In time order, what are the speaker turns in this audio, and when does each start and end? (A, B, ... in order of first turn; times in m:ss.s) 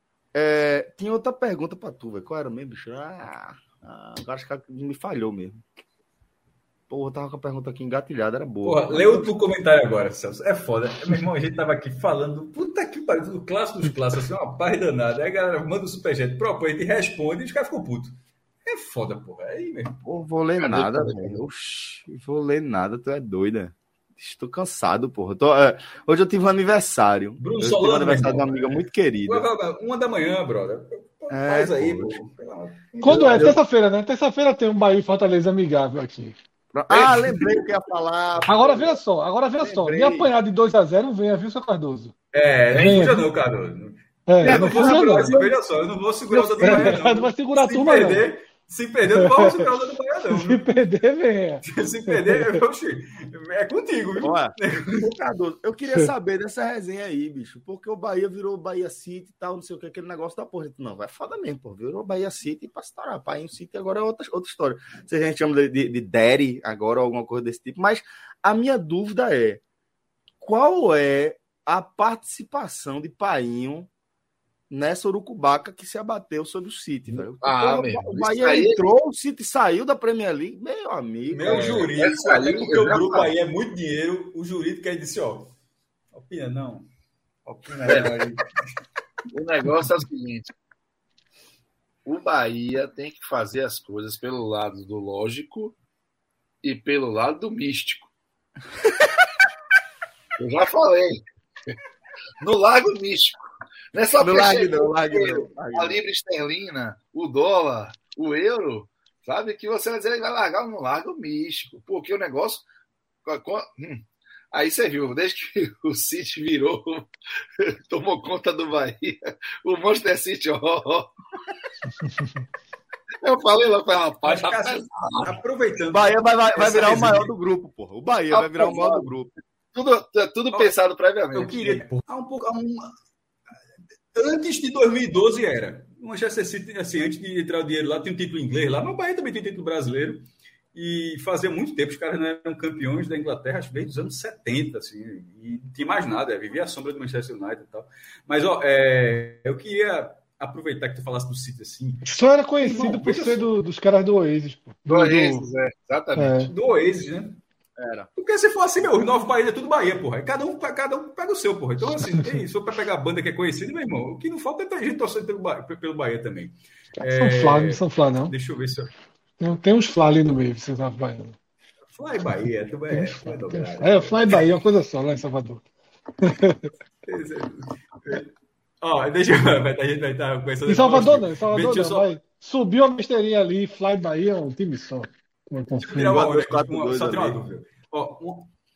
0:00.3-0:05.6 A
0:06.9-0:09.3 A
0:08.6-0:18.1 B
0:18.6-0:20.0 B
0:20.0-0:29.5 A
0:20.6-0:21.4 C
0:27.4-0:33.6 B
0:31.3-0:32.2 A
0:33.0-0:33.5 A
0:33.0-0:36.3 D
0:36.7-0:39.0 A
0:36.9-0:37.4 C
0:38.4-0:42.1 D
0:39.6-0:40.3 A
0:42.3-0:50.6 B
0:42.7-0:43.3 D
0:42.7-0:43.0 C
0:44.3-0:45.5 D
0:44.4-0:45.4 C
0:46.3-0:48.2 D
0:49.1-0:49.6 D
0:50.3-0:52.6 D
0:51.6-0:55.1 B
0:54.2-1:09.6 A
1:10.4-1:13.9 A
1:14.7-1:21.9 A
1:17.1-1:18.8 C
1:21.3-1:25.5 B
1:21.4-1:23.3 C
1:26.1-1:26.9 B
1:27.4-1:28.6 B
1:27.8-1:28.2 C
1:29.3-1:30.4 C
1:32.0-1:35.7 C
1:36.6-1:38.1 C
1:40.4-1:41.8 C
1:42.4-1:43.4 C
1:43.9-1:52.6 C
1:44.2-1:46.0 A
1:53.2-2:01.1 C
2:03.2-2:05.3 C
2:04.2-2:07.3 B
2:05.9-2:09.3 A
2:08.3-2:09.0 C
2:09.7-2:11.8 C
2:11.3-2:12.9 B
2:14.1-2:33.5 B
2:32.0-2:35.5 D
2:34.9-2:36.4 C
2:36.1-2:36.5 D
2:36.5-2:37.4 B
2:37.8-2:38.1 A
2:38.2-2:48.9 B
2:47.0-2:48.3 D
2:49.4-2:51.4 D
2:51.9-2:54.6 B
2:52.9-2:55.6 D
2:56.2-2:56.7 D
2:57.0-2:58.3 B
2:58.8-3:02.1 B
3:00.7-3:06.2 D
3:05.8-3:08.5 B
3:06.0-3:07.4 A